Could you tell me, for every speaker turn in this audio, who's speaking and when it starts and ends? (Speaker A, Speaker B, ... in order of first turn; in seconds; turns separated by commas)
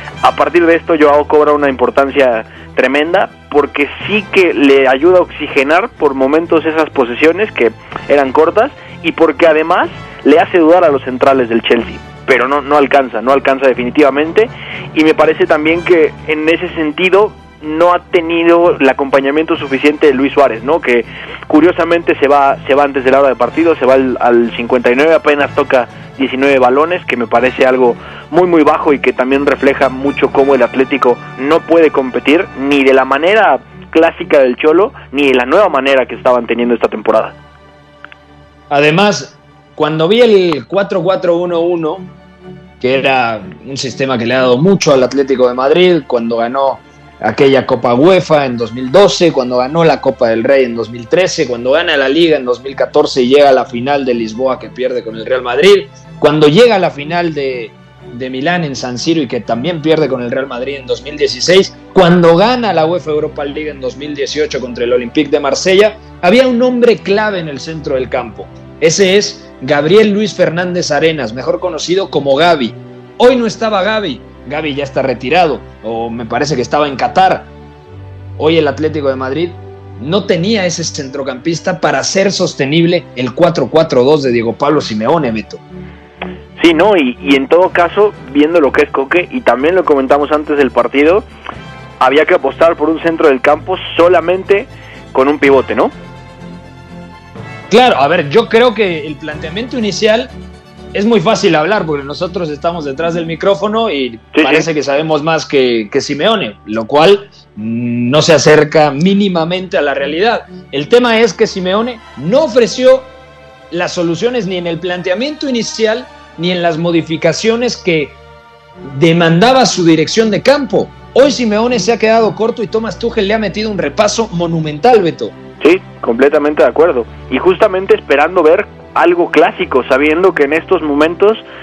Speaker A: 0.2-37.3, Speaker B: 38.7-42.1, Speaker B: 42.8-77.5, Speaker B: 78.4-85.6, Speaker A: 86.6-91.2, Speaker A: 92.0-95.9, Speaker B: 97.7-100.3, Speaker B: 100.9-113.1, Speaker A: 104.3-104.7, Speaker B: 113.7-118.1, Speaker B: 118.8-125.3, Speaker A: 125.6-131.4